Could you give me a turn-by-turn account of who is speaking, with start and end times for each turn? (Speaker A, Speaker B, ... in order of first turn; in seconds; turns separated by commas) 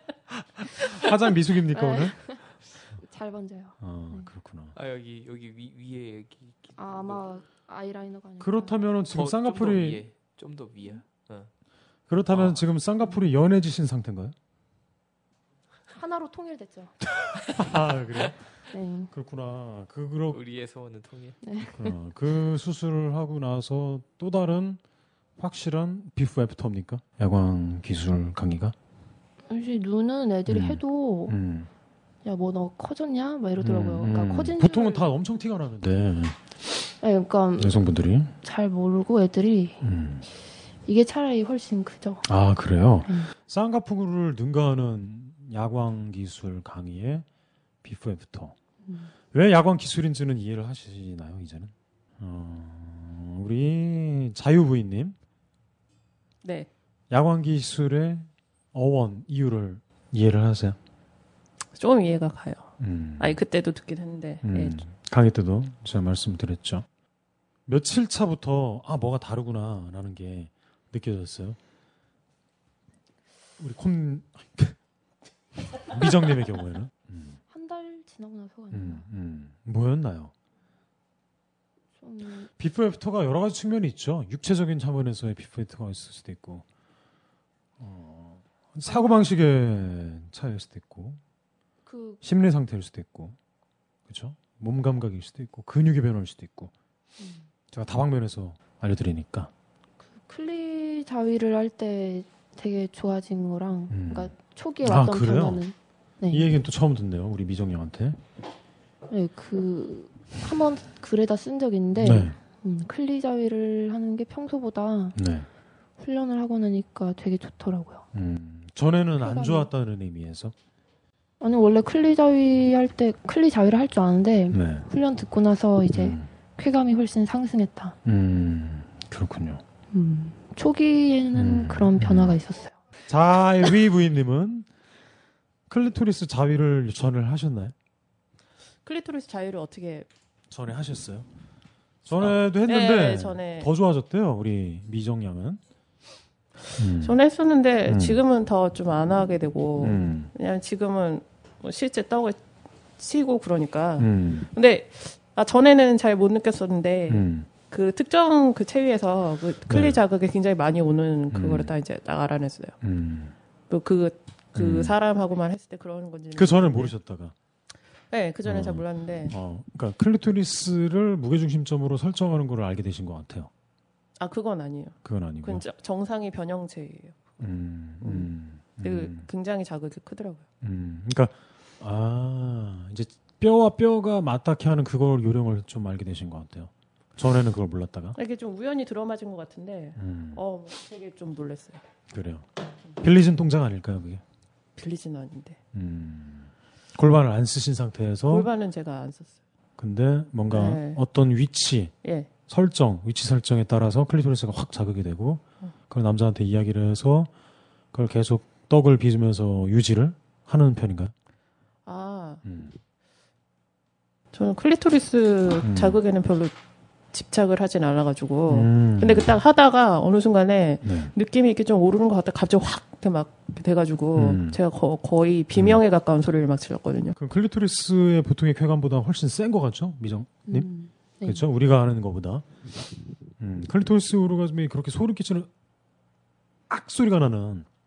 Speaker A: 0.3-2.3, Speaker B: 1.7-4.3, Speaker A: 3.8-4.7, Speaker C: 4.7-7.2, Speaker B: 6.8-8.7, Speaker A: 8.4-10.0, Speaker C: 9.1-11.5, Speaker A: 12.1-14.3, Speaker C: 12.3-12.6, Speaker B: 15.9-16.9, Speaker A: 17.3-18.4, Speaker B: 18.7-19.1, Speaker A: 19.1-20.4, Speaker C: 20.3-21.4, Speaker B: 21.4-21.9, Speaker A: 21.8-24.8, Speaker A: 25.4-28.7, Speaker B: 29.5-31.4, Speaker A: 30.5-31.7, Speaker B: 32.2-35.1, Speaker A: 33.6-36.5, Speaker B: 37.0-37.8, Speaker A: 37.6-38.3, Speaker B: 38.4-39.8, Speaker A: 39.8-40.2, Speaker B: 40.9-42.3, Speaker A: 42.2-47.2, Speaker B: 43.0-43.3, Speaker A: 47.8-48.5, Speaker B: 48.8-49.1, Speaker A: 49.3-55.2, Speaker D: 56.4-56.7, Speaker A: 57.1-60.8, Speaker D: 61.8-64.8, Speaker A: 62.8-63.4, Speaker A: 64.4-66.8, Speaker A: 67.7-71.6, Speaker A: 73.6-74.8, Speaker A: 75.7-77.4, Speaker B: 77.5-79.0, Speaker A: 78.7-80.3, Speaker B: 82.0-82.5, Speaker A: 82.6-86.6, Speaker A: 87.8-91.2, Speaker B: 88.9-89.2, Speaker B: 91.8-92.2, Speaker A: 92.2-93.4, Speaker A: 94.1-96.7, Speaker B: 97.2-97.5, Speaker A: 97.7-99.5, Speaker B: 100.1-106.5, Speaker A: 103.9-105.6, Speaker A: 106.3-108.2, Speaker B: 109.1-115.2, Speaker A: 112.0-112.3, Speaker A: 115.1-115.5, Speaker B: 116.0-118.0, Speaker A: 118.1-120.5, Speaker B: 119.2-119.7, Speaker B: 121.4-128.0, Speaker A: 124.5-124.8, Speaker A: 125.9-126.3, Speaker A: 128.0-129.6, Speaker B: 129.9-132.8, Speaker A: 131.3-132.3, Speaker A: 133.1-134.7, Speaker A: 135.7-137.7, Speaker D: 138.8-140.1, Speaker A: 140.5-141.3, Speaker A: 142.0-145.6, Speaker D: 142.6-143.7, Speaker A: 146.8-147.2, Speaker D: 147.0-152.4, Speaker A: 147.9-148.2, Speaker A: 149.8-150.3, Speaker D: 153.0-162.8, Speaker A: 154.0-154.5, Speaker A: 157.1-157.5, Speaker A: 159.7-160.0, Speaker A: 161.3-161.7, Speaker A: 162.8-163.3, Speaker D: 163.7-166.9, Speaker A: 164.5-164.9, Speaker A: 166.3-167.3, Speaker D: 168.1-169.3, Speaker A: 168.4-173.5, Speaker D: 174.2-177.3, Speaker A: 175.0-175.6, Speaker A: 177.4-179.3, Speaker D: 178.0-178.3, Speaker D: 178.8-180.4, Speaker A: 180.6-188.2, Speaker D: 188.1-191.8, Speaker A: 189.9-190.4, Speaker A: 192.1-192.5, Speaker A: 193.0-194.2, Speaker D: 194.8-195.6, Speaker A: 195.7-198.5, Speaker D: 198.3-199.4, Speaker A: 199.8-201.9, Speaker D: 200.5-201.0, Speaker D: 202.0-202.3, Speaker A: 202.5-207.3, Speaker A: 207.9-211.1, Speaker D: 211.8-212.4, Speaker A: 212.4-212.7, Speaker D: 214.3-216.5, Speaker A: 215.6-216.0, Speaker D: 217.1-227.1, Speaker A: 218.5-219.3, Speaker A: 220.8-221.1, Speaker A: 224.1-224.6, Speaker A: 225.5-225.8, Speaker A: 227.1-230.7, Speaker B: 230.5-231.4, Speaker A: 231.2-232.4, Speaker A: 233.4-235.5, Speaker A: 236.7-237.7